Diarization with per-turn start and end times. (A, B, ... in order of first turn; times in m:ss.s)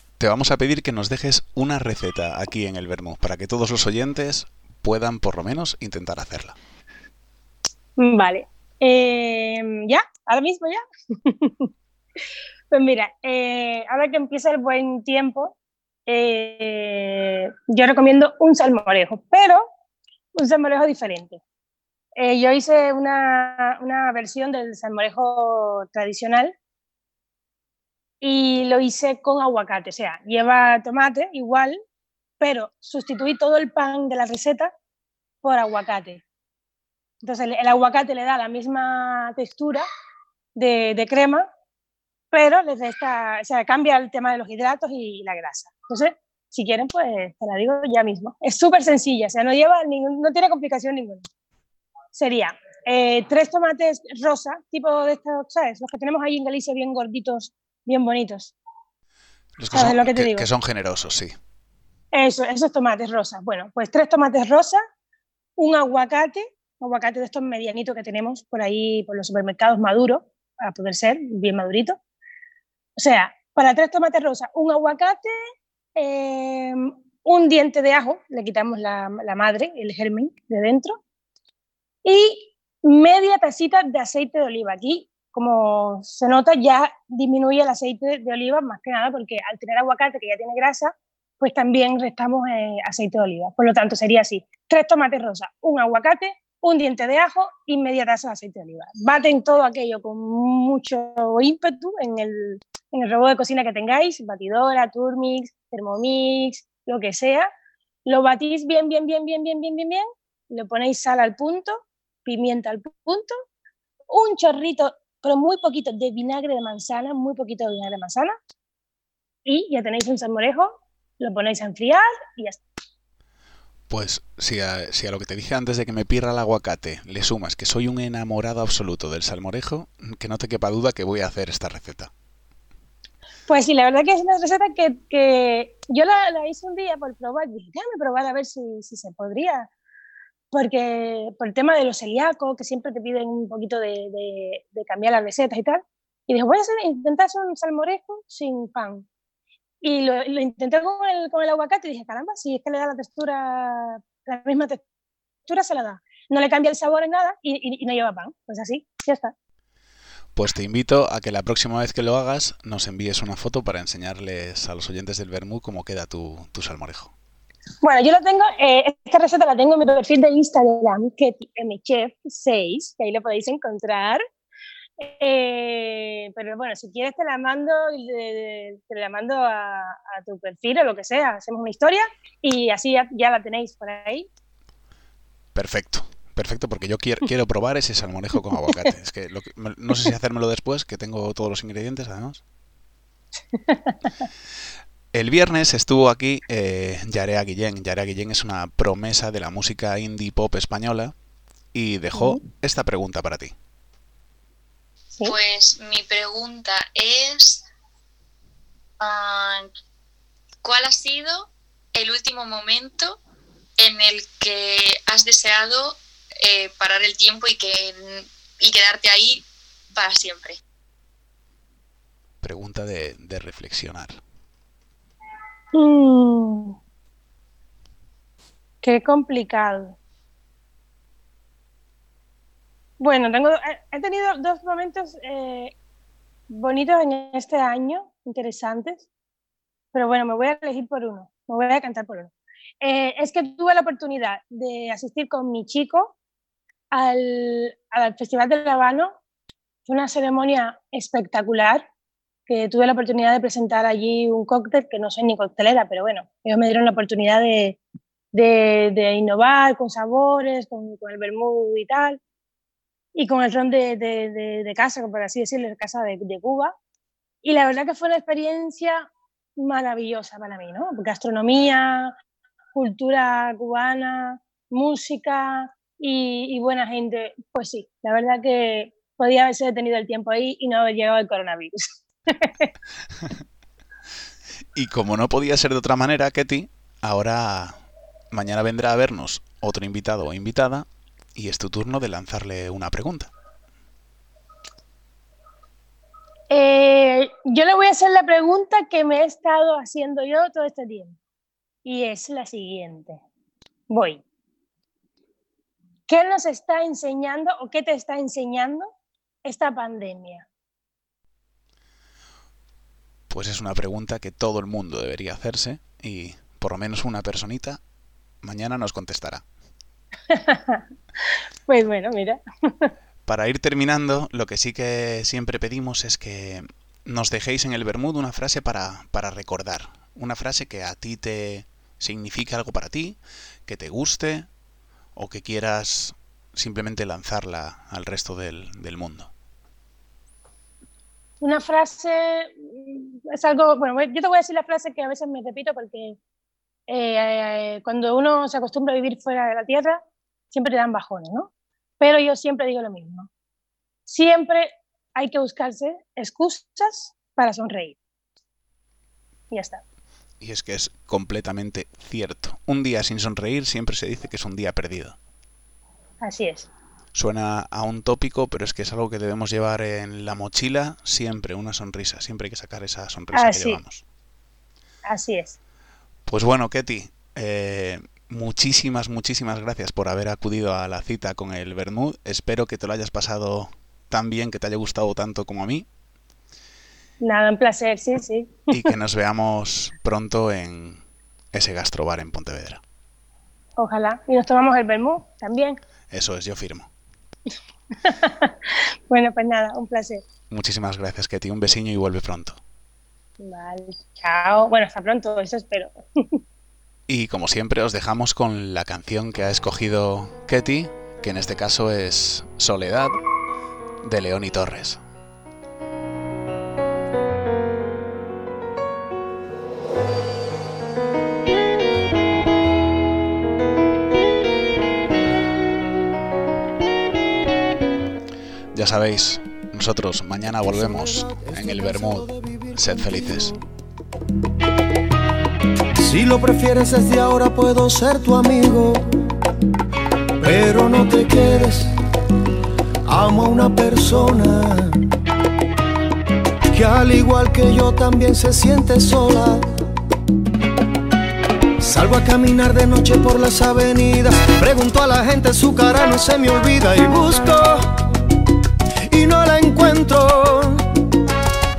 0:00.2-0:06.6 A
0:08.0-0:11.7 B
0:12.7-0:15.5 B
0:16.1-0:19.7 B
0:20.3-0:21.4 B
0:22.2-0:26.5 B
0:28.2-0:31.8 B
0:32.4-0:34.7 B
0:35.4-0:36.2 B
0:37.2-0:39.8 B
0:40.5-0:41.5 B
0:42.3-0:51.2 B
0:52.1-0:58.5 B
0:59.6-1:01.3 A
0:59.7-1:00.4 B
1:02.1-1:04.8 B
1:05.6-1:12.0 B
1:13.0-1:15.3 B
1:16.0-1:21.0 B
1:22.0-1:47.5 B
1:48.0-1:53.4 B
1:54.1-1:58.4 B
1:59.4-2:02.6 B
2:03.9-2:12.1 A
2:13.5-2:19.7 B
2:20.5-2:29.0 B
2:29.8-2:34.8 B
2:35.5-2:39.3 B
2:40.4-2:47.1 A
2:47.8-2:54.2 B
2:55.0-3:04.3 B
3:05.5-3:12.4 A
3:13.7-3:14.0 B
3:15.1-3:21.1 A
3:21.7-3:23.5 A
3:22.1-3:22.4 B
3:25.2-3:27.6 C
3:29.0-3:29.7 C
3:30.6-3:33.2 C
3:33.8-3:40.6 C
3:42.4-3:44.2 A
3:45.7-3:46.8 B
3:48.8-3:50.0 B
3:53.0-3:55.7 B
3:56.5-3:59.1 B
3:59.9-4:06.1 B
4:06.9-4:09.1 B
4:09.8-4:11.8 B
4:12.5-4:17.8 B
4:18.3-4:22.2 B
4:23.1-4:26.7 B
4:27.4-4:32.1 B
4:32.7-4:42.7 B
4:44.7-4:47.8 A
4:48.3-4:53.3 A
4:56.5-5:01.2 B
5:01.8-5:03.2 B
5:03.9-5:04.2 B
5:06.1-5:08.9 B
5:09.4-5:10.5 B
5:13.3-5:17.8 A
5:18.4-5:19.4 A
5:20.3-5:20.8 B
5:21.7-5:22.9 B
5:23.2-5:34.5 A
5:35.1-5:39.3 A
5:41.4-5:46.2 B
5:46.9-5:50.0 B
5:50.5-5:53.3 B
5:54.1-5:58.0 B
5:59.5-5:59.8 B
6:00.4-6:05.2 A
6:06.2-6:06.7 B
6:07.1-6:14.0 A
6:13.3-6:13.8 B
6:15.1-6:15.6 B
6:16.2-6:25.8 A
6:27.2-6:28.8 B
6:28.7-6:31.0 A
6:31.5-6:32.8 A
6:33.8-6:35.8 B
6:36.1-6:36.9 A
6:38.0-6:40.2 B
6:40.5-6:42.6 A
6:43.4-6:46.4 B
6:47.1-6:53.2 A
6:54.0-6:55.0 A
7:08.7-7:13.5 A
7:10.7-7:13.6 D
7:16.0-7:19.3 D
7:20.4-7:21.9 D
7:23.0-7:25.0 D
7:26.7-7:29.7 D
7:31.8-7:37.9 D
7:39.1-7:40.9 D